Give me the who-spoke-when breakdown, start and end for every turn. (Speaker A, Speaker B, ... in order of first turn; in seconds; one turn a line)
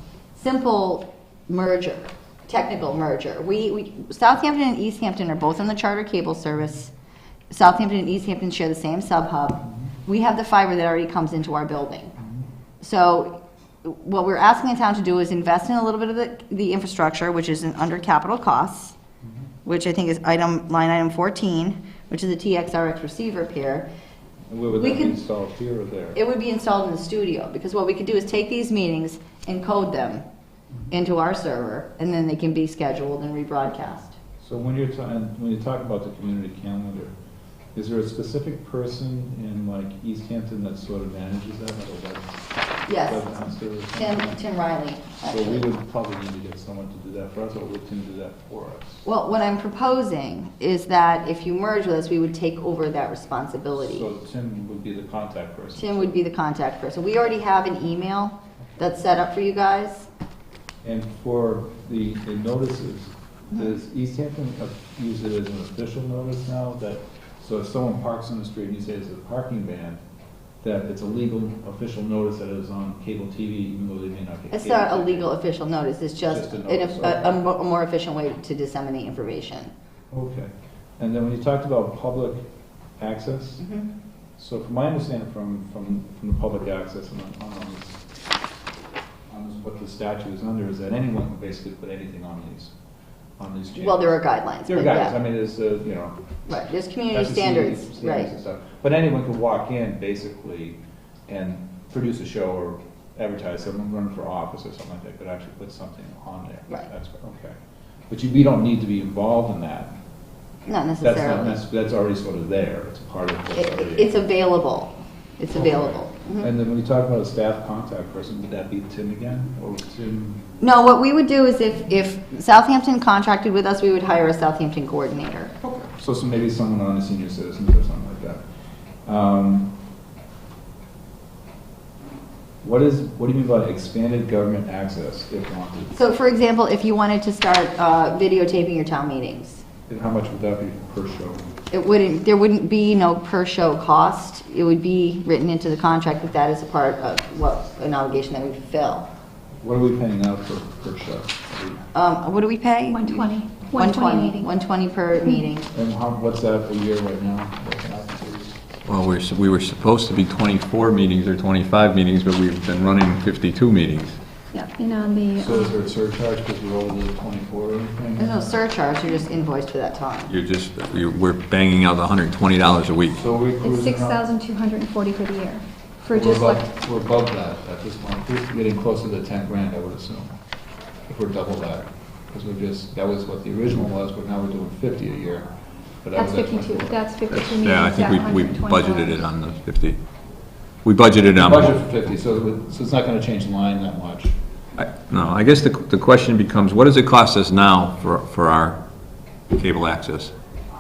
Speaker A: 0.4-6.9
Speaker A: 7.5-12.2
Speaker A: 12.8-19.0
Speaker A: 19.6-23.9
Speaker B: 24.5-26.2
Speaker A: 24.8-25.2
Speaker A: 26.1-30.2
Speaker A: 30.9-34.2
Speaker B: 34.4-37.1
Speaker B: 37.8-42.4
Speaker A: 42.9-45.7
Speaker B: 43.0-44.4
Speaker B: 45.3-49.0
Speaker A: 49.0-54.1
Speaker B: 53.8-56.2
Speaker A: 55.8-60.1
Speaker B: 60.8-70.0
Speaker B: 70.6-75.3
Speaker A: 74.5-79.7
Speaker B: 76.3-77.4
Speaker B: 80.1-82.4
Speaker B: 83.0-83.6
Speaker A: 83.6-83.9
Speaker B: 84.4-88.0
Speaker B: 89.3-92.7
Speaker B: 93.4-96.2
Speaker A: 93.8-95.2
Speaker A: 96.5-98.3
Speaker B: 97.1-107.6
Speaker B: 108.1-109.9
Speaker A: 110.7-111.6
Speaker B: 111.0-114.1
Speaker A: 113.5-116.5
Speaker B: 115.5-120.5
Speaker A: 120.6-125.5
Speaker B: 125.6-128.4
Speaker B: 129.1-129.7
Speaker B: 132.6-136.0
Speaker A: 135.9-139.6
Speaker B: 139.9-141.5
Speaker A: 141.7-149.1
Speaker B: 149.6-151.8
Speaker A: 151.9-155.7
Speaker C: 152.9-154.5
Speaker B: 155.7-158.6
Speaker D: 158.8-164.2
Speaker C: 164.5-165.7
Speaker B: 165.4-168.5
Speaker A: 168.2-170.3
Speaker D: 170.3-173.2
Speaker B: 173.1-174.2
Speaker C: 173.6-176.7
Speaker B: 176.1-180.3
Speaker B: 181.1-185.5
Speaker B: 186.0-187.0
Speaker C: 186.2-189.3
Speaker D: 187.3-190.0
Speaker D: 190.8-191.8
Speaker B: 191.4-194.3
Speaker D: 194.8-198.8
Speaker D: 199.5-200.3